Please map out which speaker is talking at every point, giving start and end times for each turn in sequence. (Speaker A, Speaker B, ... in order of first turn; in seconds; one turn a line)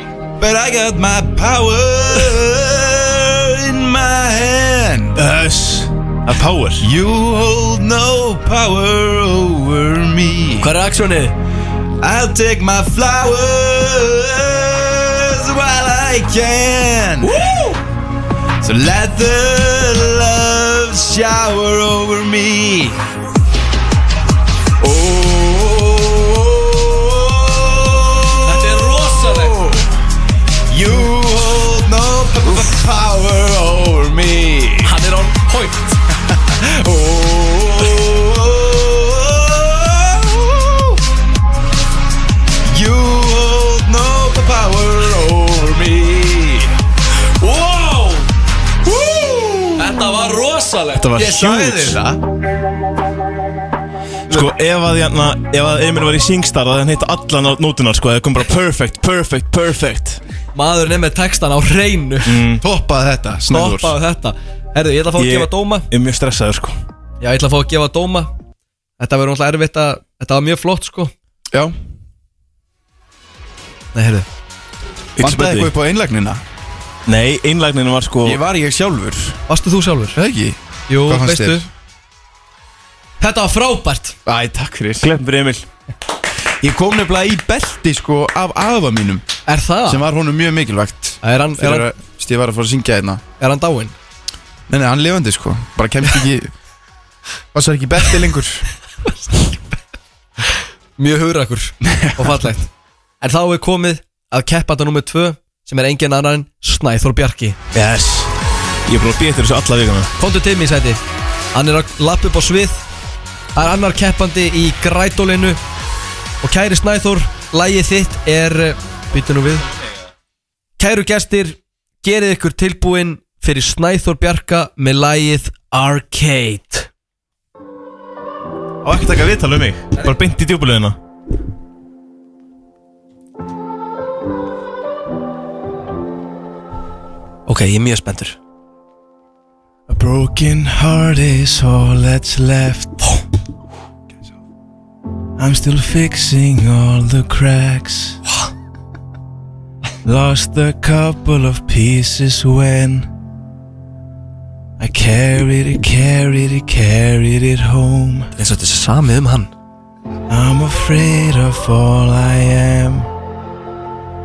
Speaker A: 0.4-5.2
Speaker B: 5.2-6.9
Speaker A: 6.8-10.7
Speaker C: 10.6-11.3
Speaker A: 12.0-17.4
Speaker C: 17.2-17.8
Speaker A: 18.6-23.0
Speaker A: 24.8-29.9
Speaker C: 28.4-29.6
Speaker A: 30.7-34.9
Speaker C: 34.8-36.0
Speaker A: 36.3-41.0
Speaker A: 42.6-46.8
Speaker C: 47.4-48.2
Speaker A: 48.8-49.9
Speaker C: 49.8-52.0
Speaker B: 50.9-51.6
Speaker A: 51.2-52.2
Speaker B: 54.3-60.2
Speaker C: 60.5-62.4
Speaker B: 62.2-62.6
Speaker A: 62.6-64.0
Speaker C: 63.5-65.9
Speaker B: 65.2-66.8
Speaker C: 67.2-68.3
Speaker C: 69.0-71.1
Speaker C: 73.9-74.2
Speaker B: 75.2-75.7
Speaker A: 75.2-76.4
Speaker B: 77.0-78.4
Speaker A: 78.2-79.4
Speaker C: 79.5-80.2
Speaker A: 80.2-81.7
Speaker C: 80.9-81.6
Speaker C: 83.2-84.2
Speaker A: 84.2-85.1
Speaker B: 85.0-85.7
Speaker A: 86.6-89.2
Speaker C: 89.5-90.0
Speaker A: 89.8-93.2
Speaker C: 91.2-91.9
Speaker C: 93.4-93.9
Speaker A: 94.7-96.5
Speaker A: 97.5-98.7
Speaker C: 101.0-102.7
Speaker A: 101.9-102.3
Speaker C: 103.2-107.6
Speaker B: 107.7-108.3
Speaker B: 108.8-110.1
Speaker C: 110.2-111.0
Speaker C: 111.5-112.8
Speaker C: 113.5-115.6
Speaker C: 116.4-119.7
Speaker C: 120.8-126.9
Speaker B: 128.8-131.0
Speaker C: 137.5-138.4
Speaker B: 139.9-143.1
Speaker B: 145.4-148.2
Speaker B: 150.0-153.1
Speaker B: 154.8-158.3
Speaker C: 158.3-159.5
Speaker B: 160.3-163.1